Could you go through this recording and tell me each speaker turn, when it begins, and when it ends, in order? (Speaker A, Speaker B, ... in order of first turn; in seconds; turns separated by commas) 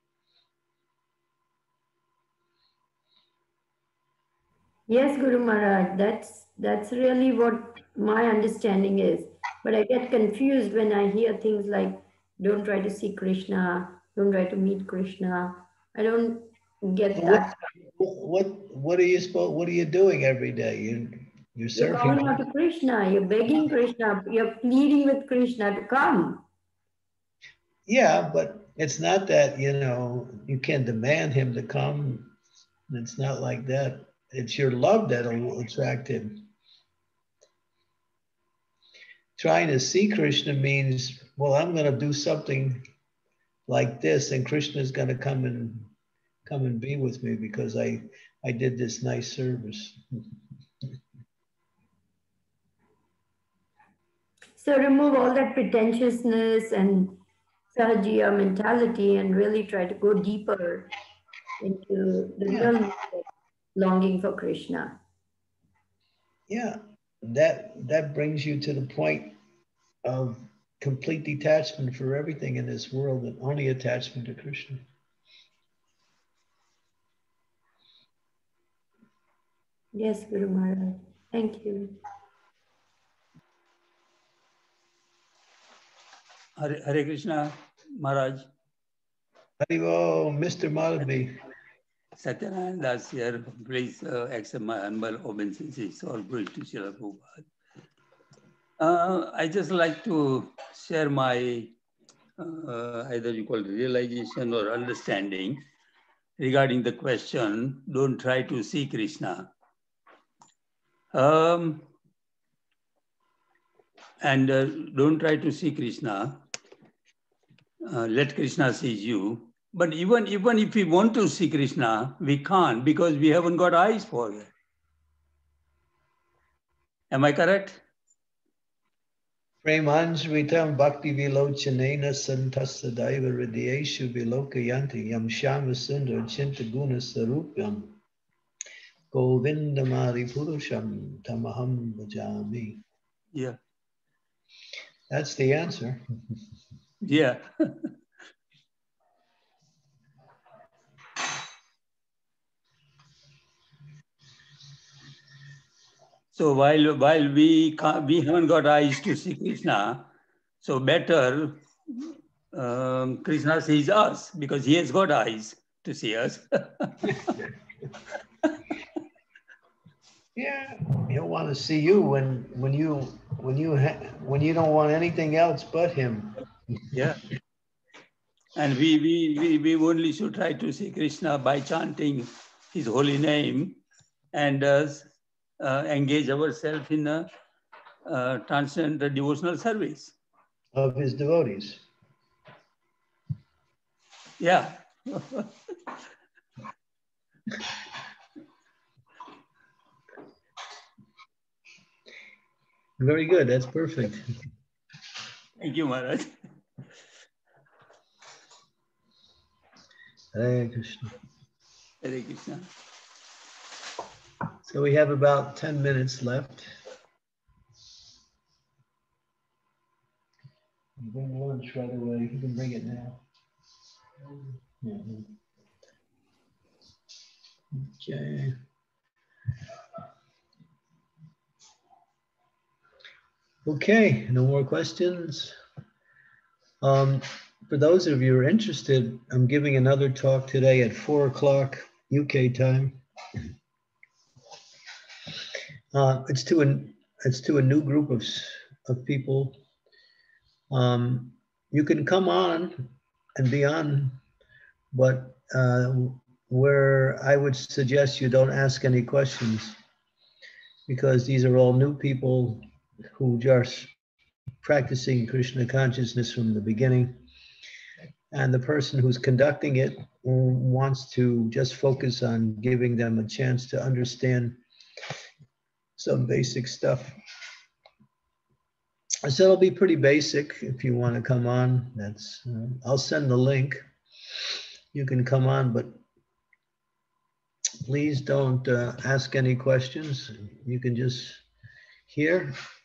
Speaker A: 4.9-17.6, Speaker B: 17.1-22.4, Speaker A: 21.8-26.4, Speaker B: 27.9-32.3, Speaker B: 32.9-36.5, Speaker B: 39.4-42.8, Speaker B: 43.7-45.9, Speaker B: 46.5-50.0, Speaker A: 54.6-57.2, Speaker A: 57.7-60.9, Speaker A: 61.6-65.0, Speaker B: 62.5-62.7, Speaker B: 66.5-69.3, Speaker B: 70.0-74.8, Speaker A: 79.9-82.0, Speaker C: 86.6-88.5, Speaker B: 89.6-91.3, Speaker C: 92.2-97.4, Speaker C: 98.8-101.7, Speaker C: 102.4-105.6, Speaker C: 106.4-109.5, Speaker C: 111.1-111.9, Speaker C: 114.2-116.4, Speaker C: 117.8-124.5, Speaker C: 127.1-127.8, Speaker B: 129.6-138.0, Speaker B: 139.1-142.8, Speaker C: 143.3-143.6, Speaker B: 145.1-146.0, Speaker C: 147.0-147.9, Speaker C: 156.3-160.1, Speaker C: 160.6-167.4, Speaker B: 170.3-176.4, Speaker C: 176.9-177.2, Speaker C: 178.5-183.8, Speaker C: 184.3-187.3, Speaker C: 188.1-190.1, Speaker B: 190.7-191.8, Speaker C: 194.4-195.9, Speaker B: 203.0-204.2, Speaker C: 205.6-206.3, Speaker B: 210.3-211.1, Speaker C: 212.0-212.7, Speaker B: 214.6-216.7, Speaker B: 221.0-223.2, Speaker B: 224.8-225.3, Speaker B: 227.7-228.6, Speaker B: 233.7-235.6, Speaker B: 236.8-243.0, Speaker B: 245.9-249.6, Speaker B: 250.7-254.2, Speaker B: 254.9-259.8, Speaker B: 260.9-262.6, Speaker B: 263.2-263.9, Speaker B: 264.6-267.2, Speaker B: 268.3-274.6, Speaker B: 276.0-277.1, Speaker B: 279.2-283.8, Speaker B: 284.9-286.0, Speaker B: 287.8-291.4, Speaker B: 292.1-292.6